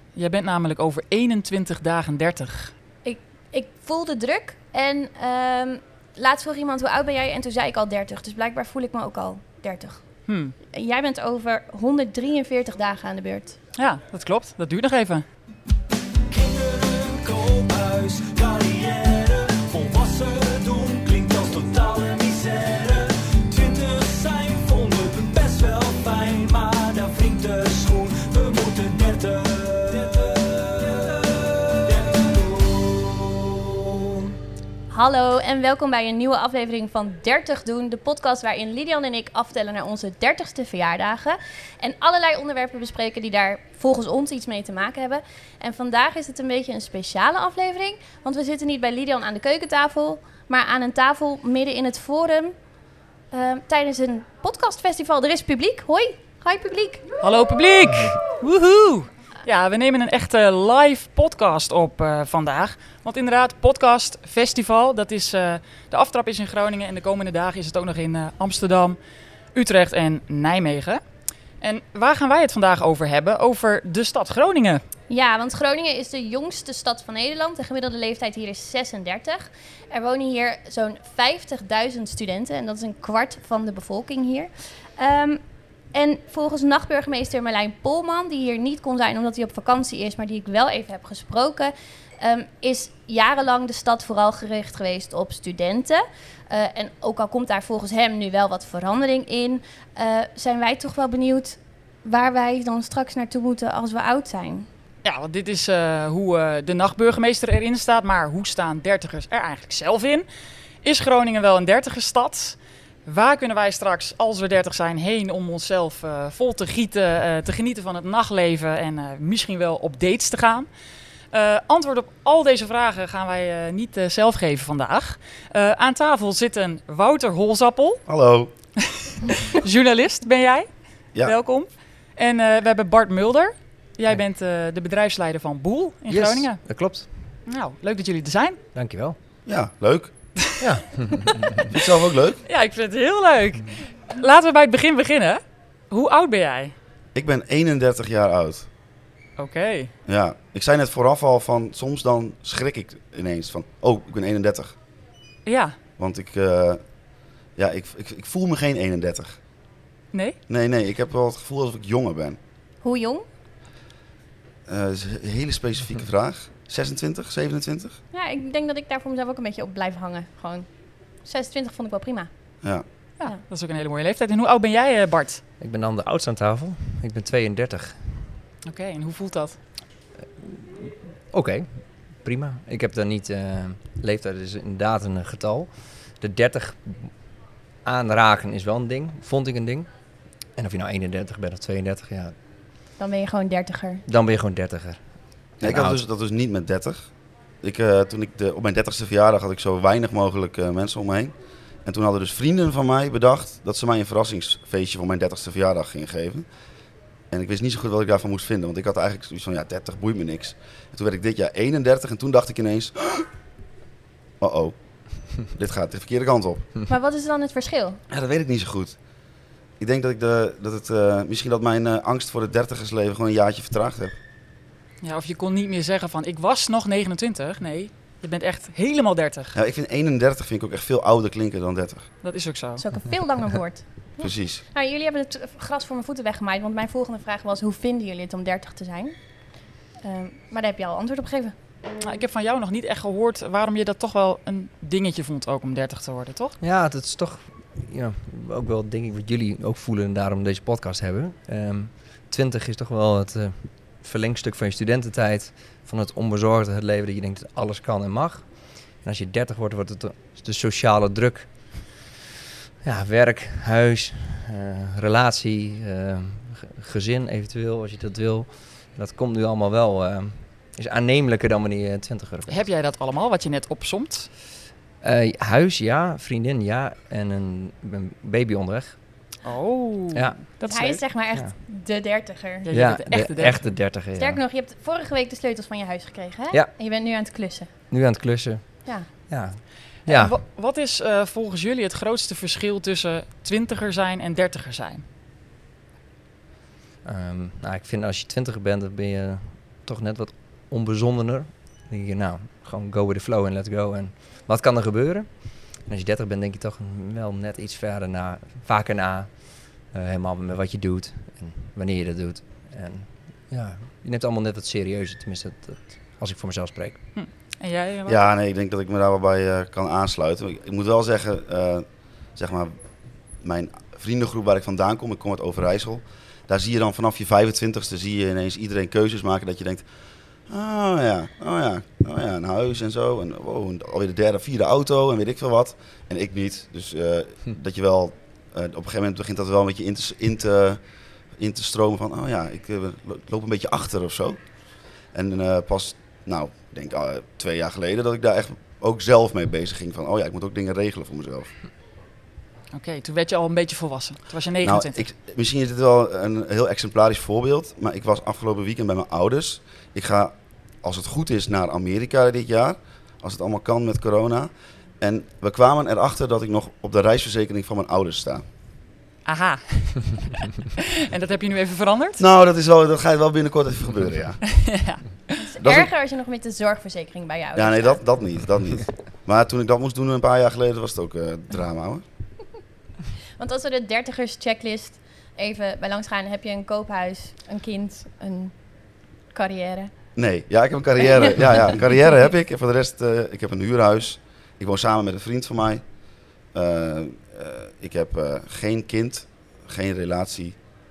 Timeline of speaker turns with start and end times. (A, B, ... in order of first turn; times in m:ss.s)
0:00.1-0:02.7 A
0:03.0-0:10.0 B
0:10.3-0:10.5 A
0:10.7-0:13.6 B
0:13.8-0:15.2 A
0:16.3-0:34.2 C
0:34.9-0:52.6 B
0:53.3-0:57.2 B
0:57.2-1:09.0 A
1:09.5-1:11.0 A
1:11.6-1:14.8 A
1:15.1-1:25.4 B
1:25.9-1:44.7 B
1:45.0-1:50.2 A
1:50.8-2:00.7 A
2:01.3-2:08.0 A
2:08.0-2:08.5 D
2:09.0-2:16.6 A
2:16.1-2:17.4 E
2:17.4-2:18.6 A
2:18.7-2:19.2 E
2:19.4-2:20.1 D
2:20.6-2:21.6 E
2:21.6-2:22.4 D
2:22.4-2:26.7 A
2:27.1-2:28.7 D
2:29.4-2:29.9 A
2:30.0-2:34.7 D
2:35.4-2:35.8 A
2:36.0-2:36.8 D
2:37.6-2:39.4 D
2:40.1-2:40.4 A
2:40.5-2:42.4 D
2:42.8-2:43.2 B
2:44.7-2:48.0 D
2:48.1-2:50.7 B
2:51.2-2:52.3 B
2:53.2-2:55.4 A
2:55.6-2:58.2 E
2:58.6-2:59.6 A
3:00.4-3:07.1 E
3:07.8-3:09.9 E
3:10.6-3:12.3 E
3:13.0-3:14.0 B
3:14.1-3:15.0 E
3:15.6-3:16.0 E
3:15.6-3:17.1 D
3:17.6-3:21.3 D
3:21.8-3:26.5 D
3:27.3-3:33.3 D
3:34.4-3:36.7 D
3:36.9-3:38.0 B
3:38.1-3:39.0 D
3:39.8-3:44.2 D
3:45.0-3:49.6 A
3:49.5-3:52.1 D
3:52.2-3:52.8 A
3:52.8-3:59.2 B
3:54.2-3:54.6 D
4:00.0-4:01.5 B
4:02.0-4:06.6 A
4:06.6-4:18.4 E
4:19.0-4:21.9 E
4:22.8-4:32.5 E
4:32.5-4:34.3 A
4:35.0-4:39.0 E
4:39.4-4:41.0 A
4:40.1-4:40.4 E
4:40.6-4:42.7 B
4:42.6-4:43.7 A
4:42.7-4:44.4 E
4:44.2-4:47.7 B
4:47.9-4:50.4 E
4:50.0-4:55.0 A
4:57.0-5:09.3 E
5:09.8-5:17.0 E
5:17.1-5:18.2 A
5:18.1-5:22.7 D
5:23.4-5:29.8 D
5:30.5-5:40.8 D
5:41.4-5:44.4 D
5:45.1-5:51.5 D
5:52.7-5:55.1 A
5:54.6-6:08.4 D
6:09.2-6:10.4 A
6:11.0-6:12.2 A
6:12.2-6:14.4 D
6:14.5-6:15.4 A
6:15.4-6:18.0 B
6:15.6-6:15.9 D
6:17.5-6:22.0 D
6:23.4-6:28.6 B
6:29.3-6:29.9 B
6:30.2-6:35.8 D
6:36.5-6:40.6 D